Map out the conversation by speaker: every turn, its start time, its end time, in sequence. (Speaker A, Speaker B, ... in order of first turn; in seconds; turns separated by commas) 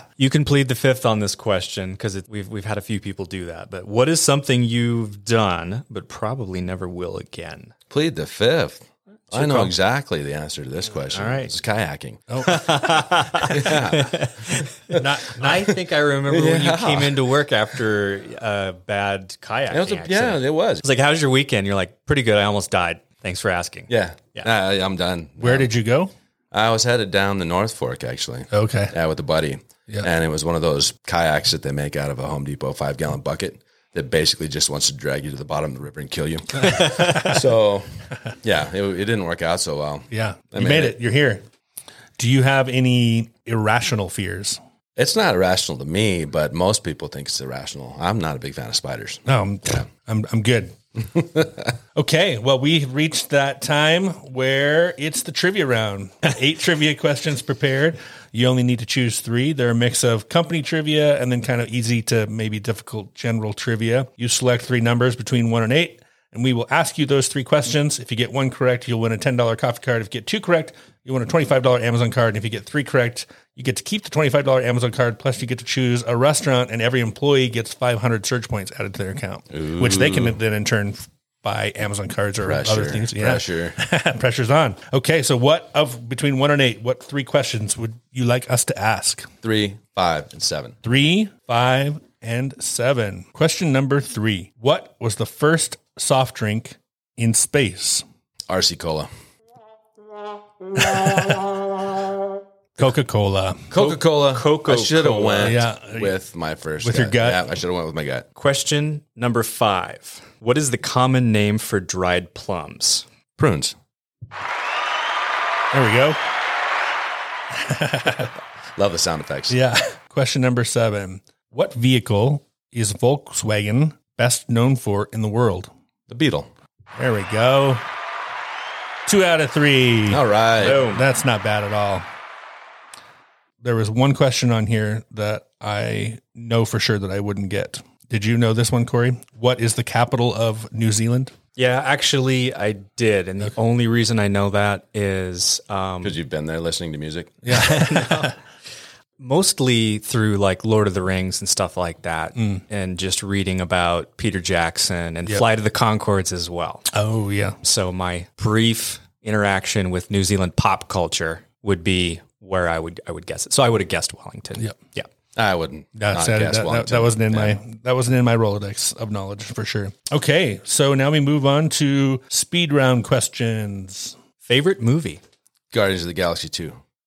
Speaker A: 0.2-7.7, Speaker B: 7.9-12.6, Speaker A: 9.3-9.7, Speaker A: 11.1-11.5, Speaker C: 12.3-13.0, Speaker A: 12.4-24.5, Speaker B: 13.3-14.2, Speaker B: 14.9-15.7, Speaker C: 14.9-15.7, Speaker B: 16.2-17.3, Speaker B: 19.7-20.8, Speaker B: 23.9-25.7, Speaker C: 25.4-26.1, Speaker B: 26.5-37.9, Speaker C: 28.5-28.9, Speaker A: 36.7-37.3, Speaker C: 37.0-37.4, Speaker B: 38.4-41.0, Speaker C: 40.1-41.4, Speaker C: 42.2-44.6, Speaker B: 45.0-49.2, Speaker C: 49.3-50.8, Speaker B: 51.2-51.5, Speaker C: 52.0-89.3, Speaker B: 79.5-80.4, Speaker B: 82.4-83.8, Speaker B: 89.4-90.8, Speaker C: 90.8-98.0, Speaker B: 98.5-99.1, Speaker C: 100.9-101.3, Speaker C: 102.8-103.7, Speaker B: 103.7-108.3, Speaker A: 103.7-105.6, Speaker C: 105.4-106.1, Speaker C: 106.8-107.4, Speaker A: 108.4-113.0, Speaker B: 113.4-113.8, Speaker C: 115.7-116.2, Speaker C: 117.5-118.3, Speaker B: 118.8-119.6, Speaker C: 119.5-125.7, Speaker B: 126.1-126.5, Speaker C: 127.0-127.8, Speaker C: 129.1-132.1, Speaker B: 130.1-130.9, Speaker A: 130.6-131.0, Speaker C: 133.6-141.3, Speaker A: 141.6-146.2, Speaker B: 146.0-147.4, Speaker C: 147.4-148.3, Speaker A: 147.5-148.3, Speaker A: 149.2-156.9, Speaker C: 152.4-152.6, Speaker C: 156.9-157.6, Speaker A: 157.6-165.1, Speaker B: 165.3-167.6, Speaker C: 166.0-174.2, Speaker A: 174.4-175.2, Speaker B: 175.7-176.8